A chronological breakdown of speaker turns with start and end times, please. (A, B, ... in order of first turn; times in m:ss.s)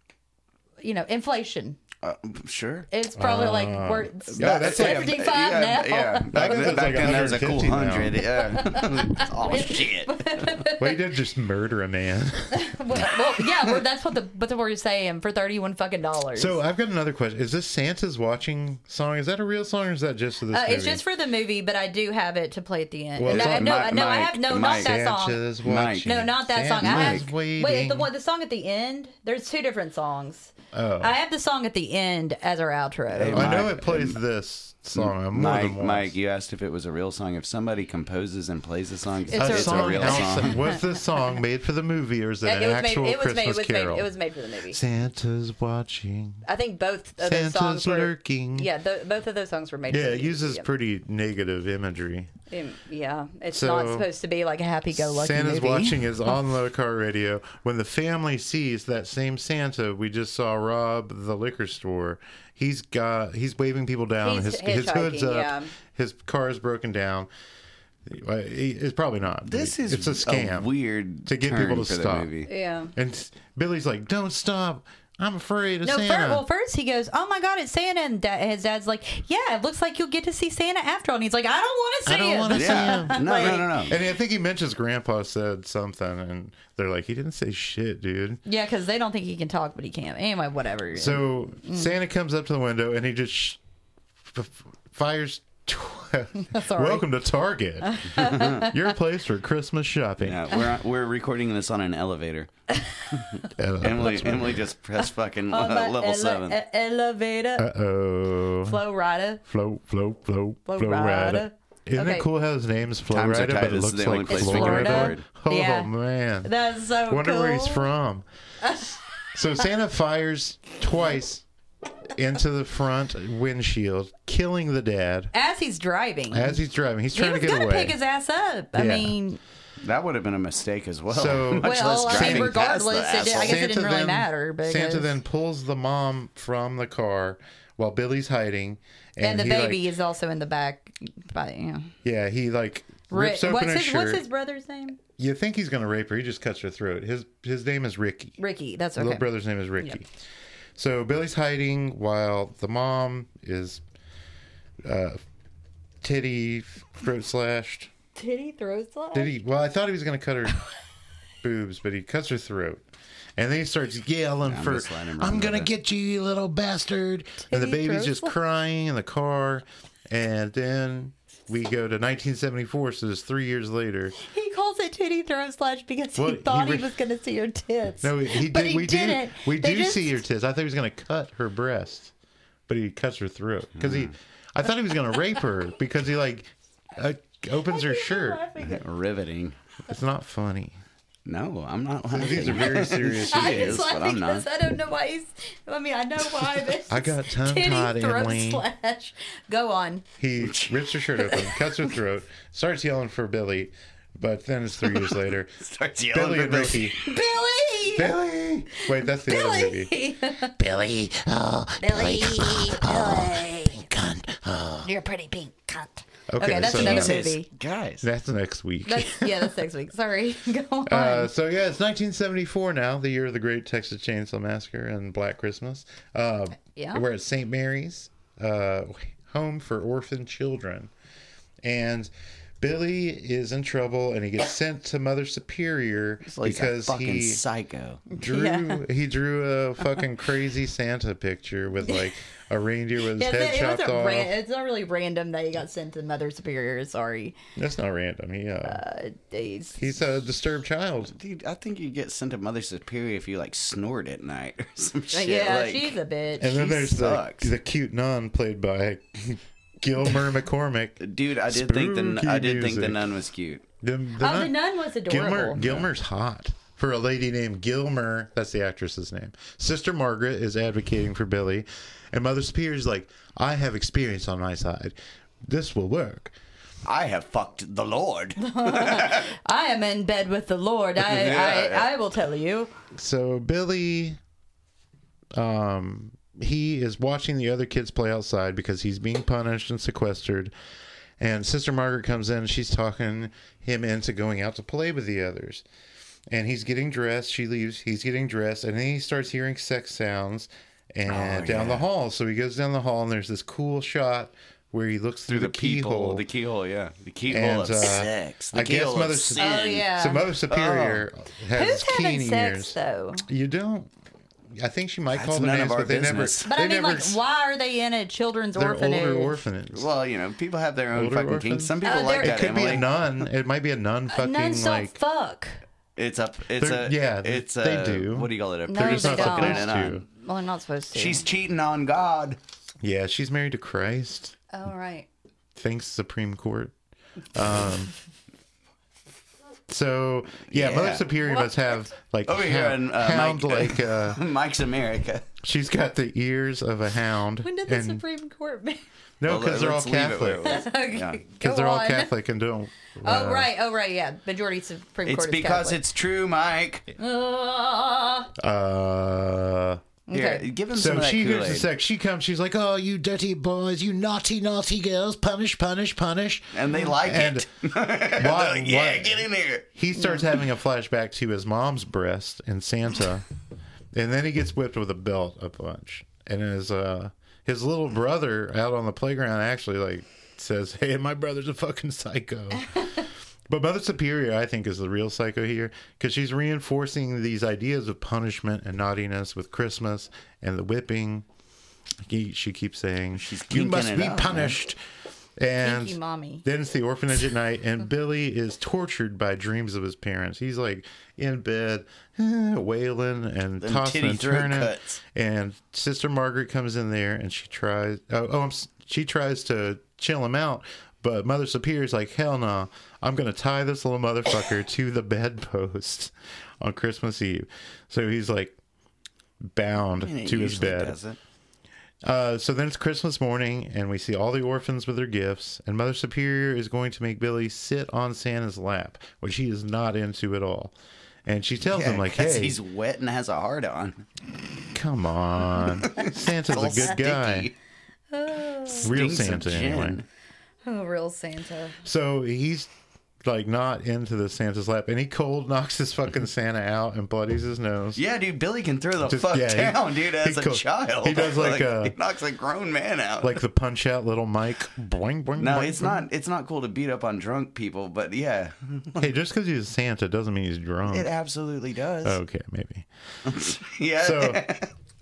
0:00.8-0:01.8 A
0:02.0-0:02.9 B
0:02.9-0:07.3 A
0:03.2-0:05.2 C
0:04.3-0:10.6 B
0:06.3-0:08.2 C
0:08.3-0:11.0 A
0:10.8-0:12.7 C
0:12.5-0:16.6 A
0:16.4-0:21.0 C
0:20.5-0:25.4 A
0:23.2-0:28.1 C
0:23.3-0:25.1 B
0:25.6-0:26.2 B
0:26.0-0:33.6 A
0:26.8-0:27.2 B
0:30.7-0:31.2 C
0:33.1-0:34.2 B
0:33.3-0:36.2 C
0:35.0-0:40.6 B
0:39.3-0:40.8 A
0:39.4-0:44.1 C
0:42.4-0:44.8 A
0:44.7-0:46.4 C
0:46.4-0:50.7 A
0:47.2-0:48.7 C
0:49.9-0:52.3 C
0:52.5-0:56.1 A
0:53.5-0:54.1 C
0:54.9-1:07.3 C
1:04.2-1:05.7 A
1:08.1-1:10.7 C
1:09.5-1:12.5 B
1:11.2-1:12.3 C
1:12.5-1:12.9 A
1:12.9-1:16.4 C
1:15.8-1:23.8 A
1:22.1-1:28.4 C
1:22.5-1:24.0 B
1:28.5-1:32.0 A
1:30.9-1:33.6 C
1:34.2-1:40.5 C
1:36.4-1:37.1 A
1:37.9-1:38.8 A
1:38.2-1:38.6 B
1:40.2-1:42.5 B
1:43.6-1:44.6 C
1:43.8-1:46.6 B
1:45.0-1:47.7 A
1:47.6-1:48.8 C
1:48.6-1:49.4 A
1:49.5-1:56.5 C
1:50.7-1:52.3 A
1:53.1-1:55.2 B
1:54.3-1:55.9 A
1:56.4-1:57.9 A
1:57.1-1:58.3 C
1:58.6-1:59.0 A
1:59.4-2:01.4 C
2:02.1-2:05.3 C
2:05.3-2:06.6 A
2:06.3-2:08.0 C
2:07.1-2:09.4 A
2:08.8-2:09.2 C
2:09.8-2:13.6 B
2:11.1-2:12.6 C
2:11.6-2:15.1 A
2:13.2-2:19.8 C
2:19.2-2:21.9 A
2:22.0-2:24.2 C
2:23.1-2:25.0 A
2:25.2-2:28.4 C
2:28.4-2:29.3 A
2:29.0-2:30.1 C
2:30.8-2:33.8 C
2:34.8-2:35.2 C
2:36.0-2:37.9 C
2:38.2-2:39.3 A
2:39.1-2:40.6 C
2:41.4-2:42.8 C
2:43.4-2:54.2 C
2:44.4-2:45.7 B
2:47.5-2:48.3 A
2:54.2-3:00.2 A
2:56.2-2:56.9 C
2:58.0-3:02.1 C
3:02.7-3:08.4 C
3:03.8-3:04.1 B
3:07.7-3:08.8 A
3:08.6-3:09.6 B
3:09.9-3:10.8 C
3:11.3-3:14.5 B
3:12.1-3:13.9 C
3:13.3-3:20.0 A
3:16.9-3:18.6 C
3:20.2-3:25.6 C
3:20.4-3:20.8 B
3:21.3-3:21.6 A
3:24.9-3:27.1 B
3:26.1-3:27.0 C
3:27.0-3:28.1 A
3:28.0-3:29.9 C
3:28.8-3:30.5 A
3:30.5-3:34.9 C
3:31.8-3:33.8 A
3:34.8-3:37.5 A
3:36.3-3:37.3 C
3:36.6-3:38.1 B
3:38.0-3:39.6 C
3:38.9-3:41.3 A
3:40.9-3:50.9 C
3:46.8-3:47.0 A
3:51.6-3:57.4 C
3:56.3-3:58.1 B
3:58.1-3:58.8 A
3:58.2-4:04.3 C
4:03.2-4:07.4 A
4:07.6-4:08.8 C
4:08.6-4:09.9 A
4:09.8-4:11.1 C
4:11.2-4:16.0 B
4:15.1-4:16.8 A
4:16.4-4:23.1 C
4:16.5-4:17.5 B
4:21.0-4:23.6 B
4:23.8-4:24.5 C
4:24.2-4:25.6 A
4:25.0-4:35.0 C
4:25.6-4:25.9 B
4:35.5-4:36.3 C
4:36.8-4:39.3 B
4:38.4-4:42.7 A
4:41.0-4:41.9 B
4:42.9-4:44.2 C
4:45.4-4:50.5 C
4:51.2-4:55.6 C
4:56.3-5:06.2 C
5:01.1-5:01.9 B
5:05.3-5:09.9 B
5:07.3-5:13.9 C
5:09.4-5:10.3 A
5:10.5-5:11.1 B
5:11.5-5:13.2 A
5:14.6-5:17.2 C
5:15.1-5:16.5 B
5:16.5-5:19.4 A
5:18.6-5:19.9 C
5:19.7-5:22.9 B
5:20.9-5:25.0 C
5:21.8-5:22.5 A
5:24.1-5:25.6 A
5:26.0-5:30.0 B
5:26.6-5:30.0 C
5:28.7-5:31.2 A
5:30.9-5:32.4 B
5:32.8-5:34.4 C
5:34.5-5:35.1 A
5:35.6-5:36.7 C
5:37.3-5:37.9 C
5:39.7-5:44.2 C
5:40.5-5:41.0 B
5:41.3-5:41.9 A
5:42.3-5:45.3 B
5:45.4-5:48.0 C
5:47.4-5:48.8 A
5:49.2-5:50.6 C
5:49.2-5:51.2 B
5:50.4-5:52.1 A
5:51.4-5:53.5 C
5:53.0-5:55.8 A
5:55.1-5:56.9 B
5:57.0-5:58.3 A
5:58.4-5:59.8 C
6:00.1-6:00.5 A
6:00.1-6:01.7 B
6:00.7-6:07.5 C
6:06.5-6:09.6 B
6:08.1-6:13.2 C
6:10.0-6:10.2 A
6:13.9-6:31.3 C
6:32.1-6:34.8 C
6:33.2-6:34.6 B
6:35.4-6:58.6 C
6:35.6-6:36.4 A
6:43.6-6:45.0 B
6:59.4-7:01.0 C
7:00.0-7:01.2 B
7:02.0-7:12.6 C
7:11.7-7:14.0 B
7:14.7-7:17.5 C
7:15.8-7:17.5 B
7:18.1-7:18.9 A
7:18.8-7:20.0 B
7:18.8-7:20.0 C
7:20.6-7:21.8 A
7:21.8-7:22.7 C
7:23.2-7:28.0 C
7:28.0-7:33.4 B
7:29.1-7:32.0 C
7:33.2-7:36.0 C
7:35.4-7:39.1 B
7:39.0-7:41.1 C
7:40.9-7:42.2 B
7:42.0-7:42.9 C
7:43.2-7:44.7 B
7:44.0-7:44.4 C